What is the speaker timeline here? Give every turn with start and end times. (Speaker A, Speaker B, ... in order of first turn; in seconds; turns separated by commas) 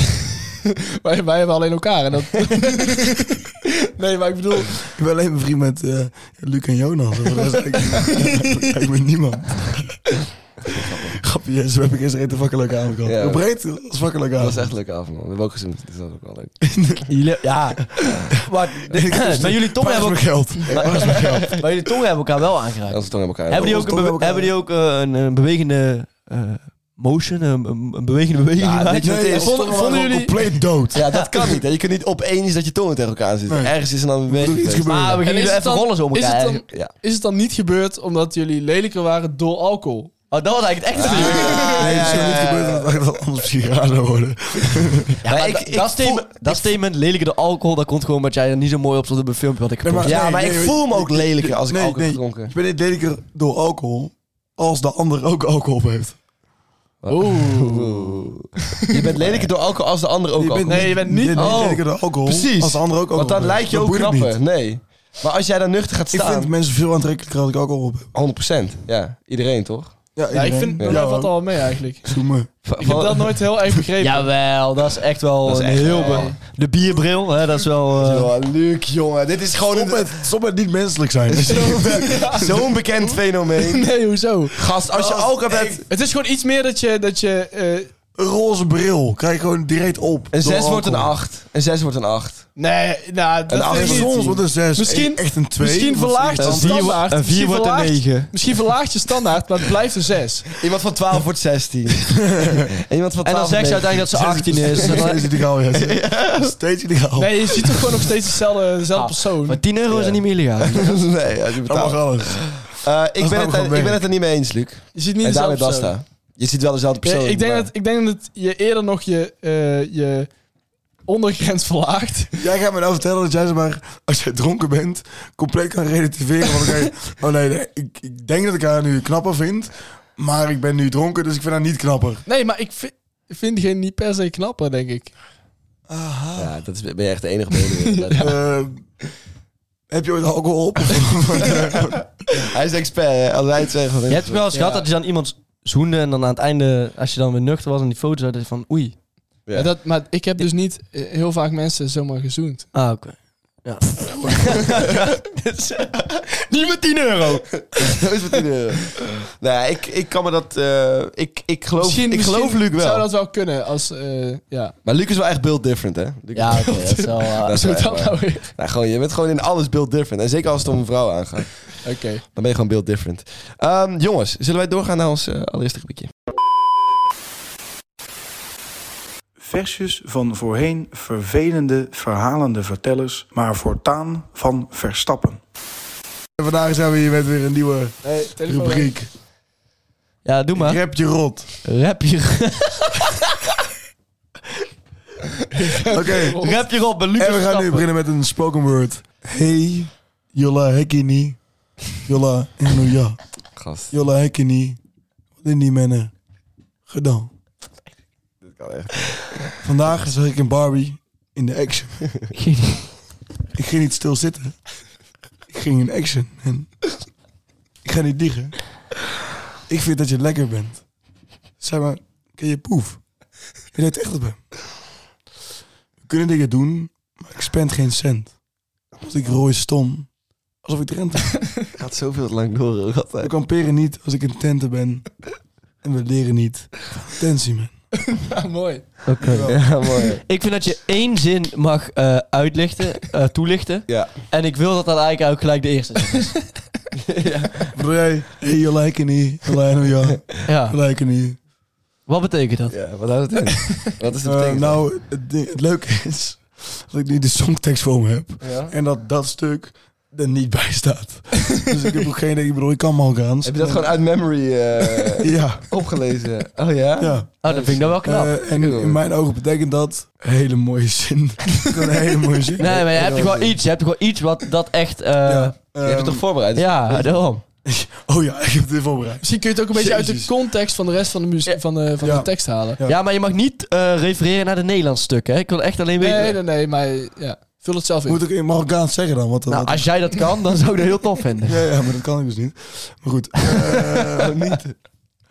Speaker A: 1.0-4.8, Speaker B: 4.9-10.1, Speaker A: 8.1-8.5, Speaker B: 11.1-14.7, Speaker C: 13.0-13.4, Speaker C: 14.4-16.5, Speaker B: 16.6-17.1, Speaker D: 17.1-29.3, Speaker B: 18.4-21.6, Speaker C: 20.7-21.6, Speaker C: 22.9-23.8, Speaker B: 23.5-24.5, Speaker C: 28.6-29.6, Speaker B: 28.9-31.0, Speaker A: 29.4-30.6, Speaker C: 30.9-34.9, Speaker B: 33.5-33.7, Speaker B: 34.3-35.2, Speaker D: 34.9-36.6, Speaker A: 35.2-40.1, Speaker D: 40.3-42.2, Speaker C: 40.9-42.9, Speaker A: 41.2-41.8, Speaker B: 41.4-45.2, Speaker C: 45.2-46.7, Speaker D: 45.2-50.1, Speaker B: 49.8-56.1, Speaker C: 50.0-52.5, Speaker C: 57.0-66.5, Speaker A: 57.1-58.3, Speaker B: 60.4-64.4, Speaker A: 60.7-61.6, Speaker B: 66.1-68.1, Speaker C: 68.1-70.0, Speaker B: 70.2-71.4, Speaker A: 70.3-72.2, Speaker B: 72.0-72.5, Speaker C: 72.6-73.4, Speaker A: 72.8-74.3, Speaker D: 74.0-78.3, Speaker C: 75.4-76.3, Speaker A: 75.9-76.3, Speaker C: 78.0-80.2, Speaker B: 79.6-82.4, Speaker A: 81.5-82.7, Speaker C: 82.1-83.9, Speaker A: 83.5-84.6, Speaker C: 84.5-85.8, Speaker B: 84.9-85.8, Speaker A: 85.9-87.9, Speaker B: 88.2-91.1, Speaker C: 90.3-92.5, Speaker A: 92.5-100.5, Speaker C: 93.5-94.3, Speaker B: 93.7-97.0, Speaker D: 96.4-98.3, Speaker C: 100.6-105.1, Speaker B: 102.2-102.7, Speaker D: 103.2-105.2, Speaker B: 104.1-107.9, Speaker C: 105.7-106.5, Speaker A: 107.2-109.6, Speaker D: 108.9-110.9, Speaker C: 109.9-117.7, Speaker B: 111.7-114.0, Speaker A: 114.9-115.9, Speaker A: 117.0-120.3, Speaker A: 121.0-122.3, Speaker B: 122.4-132.2, Speaker A: 132.2-135.1, Speaker B: 135.9-136.5, Speaker C: 136.4-138.3, Speaker A: 137.9-138.3, Speaker B: 138.2-138.8, Speaker B: 139.9-142.2, Speaker C: 142.3-144.4, Speaker D: 144.1-149.0, Speaker A: 144.5-144.8, Speaker A: 149.5-152.7, Speaker D: 152.7-158.0, Speaker C: 157.7-163.1, Speaker A: 161.8-164.7, Speaker C: 164.8-176.1, Speaker D: 166.3-167.7, Speaker A: 166.5-168.5, Speaker A: 171.8-172.2, Speaker E: 179.4-185.3, Speaker B: 186.4-189.1, Speaker A: 188.0-188.9, Speaker D: 190.2-190.8, Speaker B: 190.5-191.5, Speaker D: 191.6-193.4, Speaker A: 195.5-196.6, Speaker B: 195.8-196.4, Speaker D: 196.4-197.8, Speaker B: 197.1-201.4, Speaker B: 202.0-203.2, Speaker C: 203.6-203.9, Speaker B: 203.9-204.8, Speaker B: 205.4-206.1, Speaker B: 206.9-207.3, Speaker C: 208.4-209.5, Speaker B: 209.6-212.0, Speaker D: 212.3-212.9, Speaker B: 213.5-214.6, Speaker B: 215.5-216.7, Speaker B: 217.8-218.6, Speaker B: 219.7-220.8, Speaker B: 221.6-223.0, Speaker B: 223.7-224.4, Speaker B: 226.0-228.3, Speaker B: 229.0-230.1, Speaker B: 230.6-231.4, Speaker C: 231.8-233.3, Speaker B: 233.2-235.1, Speaker B: 235.8-237.7, Speaker A: 238.0-238.8, Speaker D: 239.1-246.4, Speaker B: 239.2-239.6, Speaker C: 239.4-240.2, Speaker C: 247.1-247.7, Speaker B: 247.7-251.4, Speaker D: 250.5-250.8, Speaker D: 252.1-252.8, Speaker C: 252.7-254.8, Speaker B: 254.2-263.9, Speaker C: 258.4-258.7, Speaker C: 263.4-267.7, Speaker B: 265.0-265.7, Speaker B: 267.0-272.8, Speaker D: 267.4-268.4, Speaker C: 268.5-269.0, Speaker D: 272.6-275.5, Speaker C: 272.6-273.5, Speaker B: 275.2-276.2, Speaker C: 275.8-277.1, Speaker D: 276.6-277.4, Speaker B: 277.6-280.3, Speaker A: 279.2-282.8, Speaker B: 282.0-283.0, Speaker D: 282.8-286.4, Speaker A: 286.0-288.2, Speaker B: 288.1-289.9, Speaker D: 289.5-291.6, Speaker B: 291.4-294.6, Speaker C: 293.6-294.7